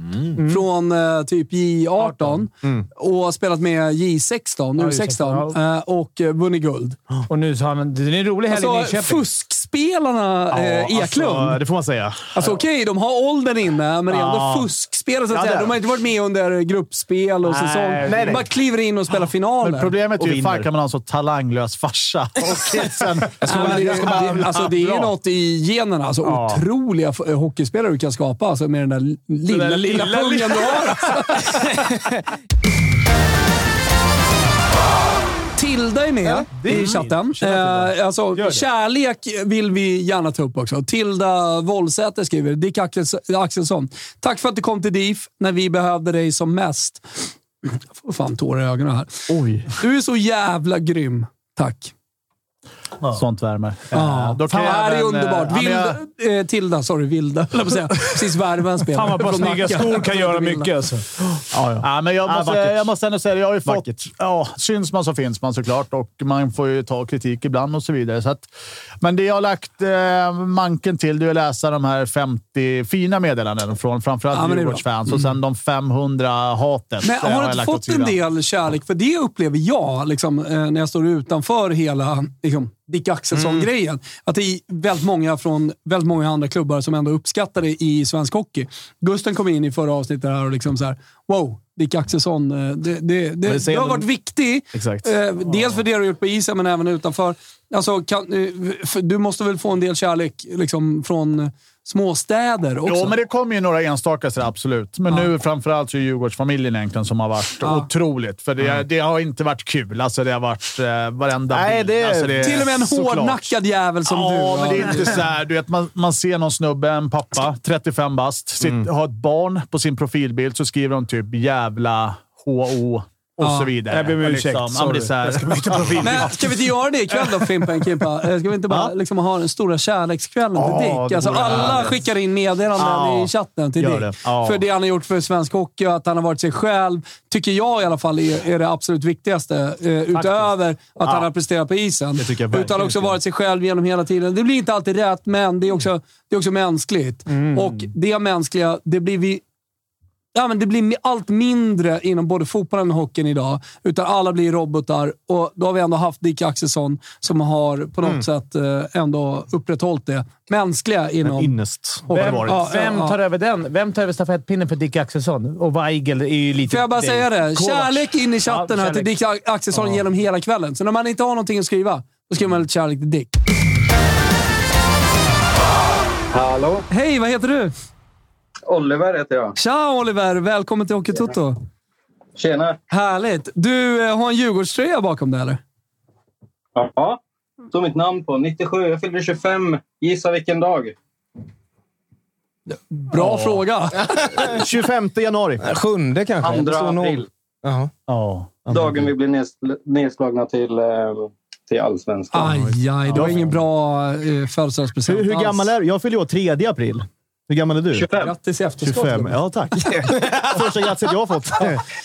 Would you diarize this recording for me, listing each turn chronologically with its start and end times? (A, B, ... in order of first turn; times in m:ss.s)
0:00.4-0:00.6 A
0:00.4-0:07.0 B
0:02.0-0:02.4 A
0:04.8-0:05.6 A
0:07.3-0:09.2 A
0:08.5-0:11.6 B
0:10.5-0:12.6 C
0:12.3-0:20.0 B
0:14.1-0:14.7 C
0:15.3-0:15.8 C
0:17.5-0:18.4 A
0:18.0-0:18.5 C
0:19.6-0:25.1 D
0:20.2-0:20.7 C
0:23.4-0:24.5 E
0:23.4-0:31.6 B
0:26.2-0:26.6 A
0:29.5-0:31.9 A
0:35.6-0:51.9 B
0:36.5-0:37.8 A
0:36.6-0:37.9 D
0:38.4-0:38.6 A
0:49.3-0:49.7 C
0:53.1-0:56.0 D
0:53.9-1:00.7 B
0:59.0-1:01.0 A
1:01.3-1:02.9 C
1:01.8-1:08.5 D
1:03.6-1:04.1 C
1:09.0-1:18.2 D
1:14.3-1:15.2 B
1:17.0-1:43.2 B
1:23.4-1:23.6 C
1:33.4-1:34.1 C
1:34.7-1:35.1 C
1:42.8-1:52.7 D
1:47.6-1:47.9 B
1:51.5-1:53.6 C
1:52.4-1:55.2 B
1:54.1-2:06.4 D
1:58.6-1:58.9 C
2:03.4-2:03.7 B
2:03.9-2:06.4 A
2:06.0-2:29.4 B
2:08.7-2:08.9 C
2:10.6-2:12.0 C
2:12.8-2:14.6 C
2:20.1-2:20.5 A
2:21.0-2:21.3 C
2:22.2-2:23.2 C
2:27.3-2:27.9 A
2:30.4-2:41.6 B
2:41.2-2:42.7 C
2:42.1-2:43.2 B
2:42.1-2:49.2 A
2:46.7-2:53.3 B
2:49.7-2:50.0 A
2:56.3-2:56.9 F
2:56.9-2:57.7 B
2:58.7-2:59.6 F
2:59.6-3:01.6 B
3:02.4-3:02.8 F
3:02.9-3:05.6 B
3:06.8-3:07.2 F
3:07.7-3:11.0 F
3:12.7-3:14.1 B
3:14.3-3:15.7 C
3:15.6-3:17.9 E
3:16.4-3:17.3 F
3:18.1-3:18.5 D
3:18.7-3:19.1 C
3:18.7-3:22.6 F
3:22.3-3:25.7 B
3:22.5-3:23.6 C
3:25.1-3:28.1 C
3:27.9-3:28.3 F
3:28.1-3:29.4 B
3:28.8-3:31.8 C